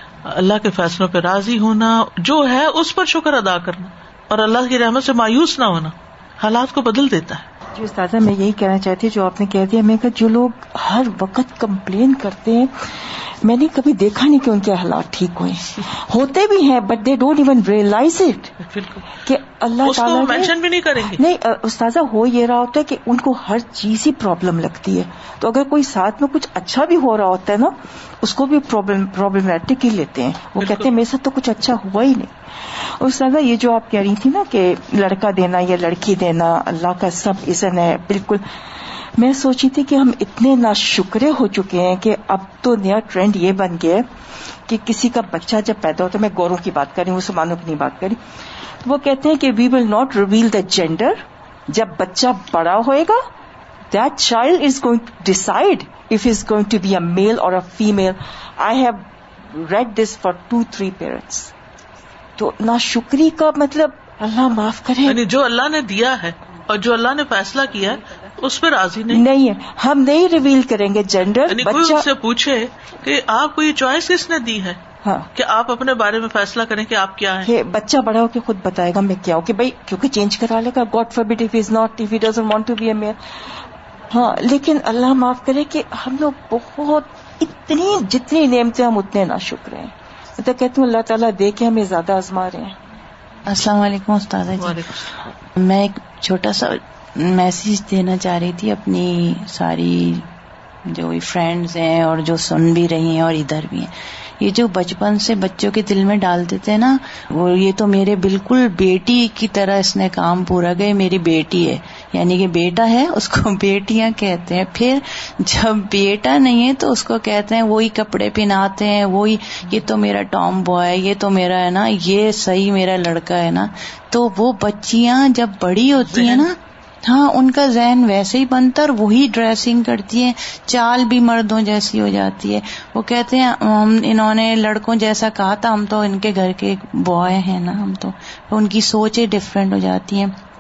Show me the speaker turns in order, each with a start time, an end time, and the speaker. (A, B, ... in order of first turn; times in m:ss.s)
0:00.3-0:07.5 A
0:07.7-0:12.7 B
0:13.4-0:18.6 B
0:18.6-0:19.1 A
0:19.2-0:32.3 B
0:19.8-0:21.2 A
0:30.6-0:30.9 A
0:33.0-0:38.4 B
0:39.2-0:44.0 B
0:44.7-0:48.2 B
0:48.8-0:53.2 B
0:53.9-1:01.5 B
1:02.4-1:05.2 B
1:05.0-1:09.2 A
1:09.1-1:12.1 B
1:11.5-1:14.8 A
1:15.4-1:17.5 A
1:17.4-1:23.2 B
1:24.1-1:32.8 B
1:33.5-1:34.8 C
1:34.6-1:35.1 A
1:35.6-1:40.3 C
1:40.9-2:20.3 C
2:06.1-2:06.5 A